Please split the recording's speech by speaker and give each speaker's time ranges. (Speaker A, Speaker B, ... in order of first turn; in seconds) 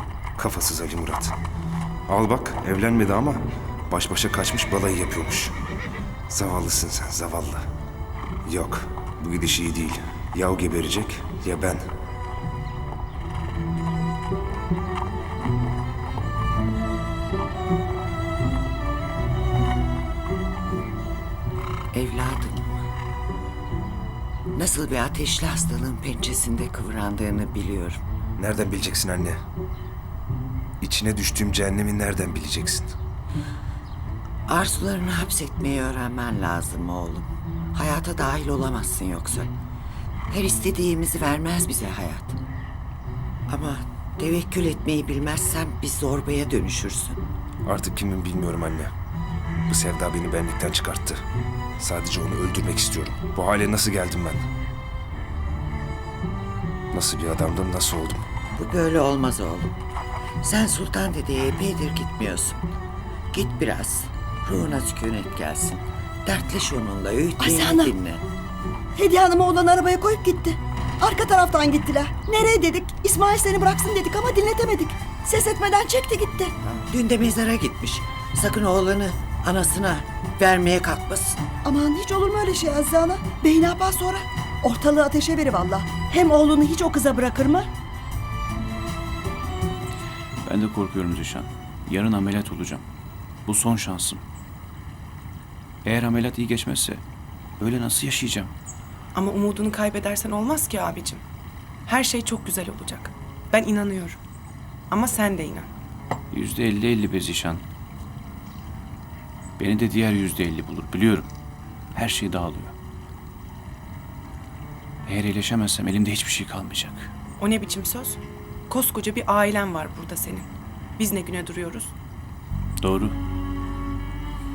Speaker A: 0.3-1.3, 2.1-5.5, 6.3-7.7, 8.4-11.9, 28.4-29.4, 30.8-33.0, 47.6-48.9, 49.7-51.2, 51.8-54.5, 56.9-58.2
Speaker B: 21.9-22.8, 24.5-28.0, 34.5-39.5, 40.3-42.4, 43.5-47.2, 58.5-59.7, 60.4-62.6, 63.3-68.2, 76.9-81.5
Speaker C: 67.4-67.9, 69.0-76.5, 81.6-87.7
Speaker D: 90.4-92.8, 93.5-94.2, 95.8-97.0, 97.6-98.5, 106.3-107.6, 109.6-111.3, 111.9-112.7, 115.0-117.1, 122.8-123.2
Speaker E: 99.1-101.2, 101.8-104.2, 104.9-105.7, 117.4-118.2, 118.7-121.9